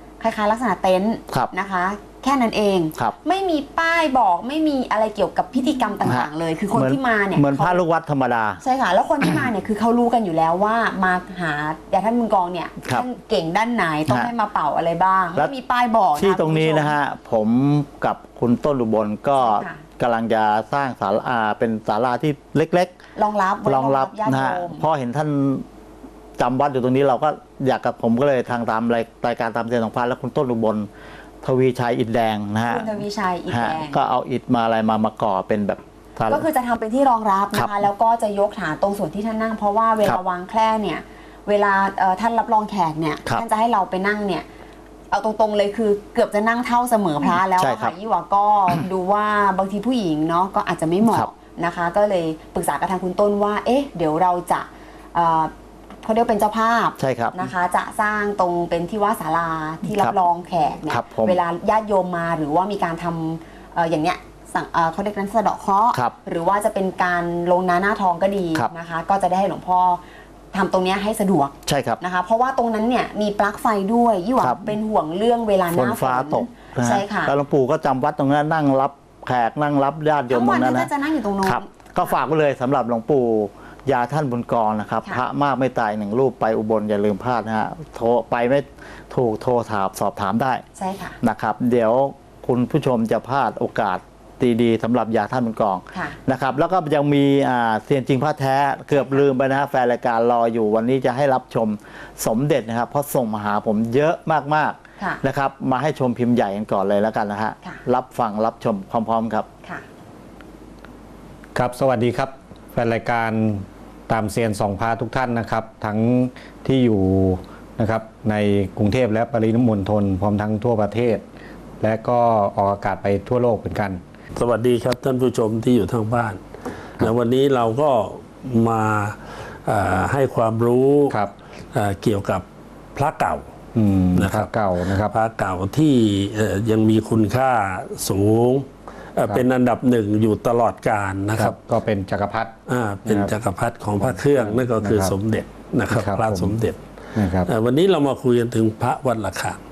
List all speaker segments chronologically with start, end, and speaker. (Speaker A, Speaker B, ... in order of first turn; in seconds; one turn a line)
Speaker A: 0.2-7.8
Speaker B: 6.0-8.6
Speaker A: 8.6-16.9
Speaker B: 16.2-22.9
Speaker A: 19.4-19.8
Speaker A: 23.1-24.9
Speaker B: 23.6-25.6
Speaker B: 26.4-30.9
Speaker B: 31.4-36.5
Speaker A: 32.6-34.0
Speaker A: 36.3-44.5
Speaker A: 45.1-77.3
Speaker B: 47.6-47.9
Speaker B: 57.0-57.4
Speaker B: 59.9-60.1
Speaker B: 60.9-61.4
Speaker B: 71.7-72.0
Speaker B: 75.7-80.9
Speaker A: 80.3-82.2
Speaker B: 81.4-90.6
Speaker A: 90.7-91.2
Speaker B: 91.2-109.5
Speaker A: 95.9-96.2
Speaker A: 98.9-99.2
Speaker A: 105.0-105.2
Speaker C: 111.5-121.2
Speaker C: 121.8-124.0
Speaker D: 124.3-126.4
Speaker D: 127.0-131.2
Speaker D: 131.7-133.5
Speaker C: 133.7-135.1
Speaker D: 134.2-141.6
Speaker C: 141.3-142.5
Speaker D: 142.7-146.8
Speaker C: 143.0-143.3
Speaker C: 144.0-145.1
Speaker C: 145.9-146.5
Speaker C: 147.1-147.5
Speaker D: 147.4-149.6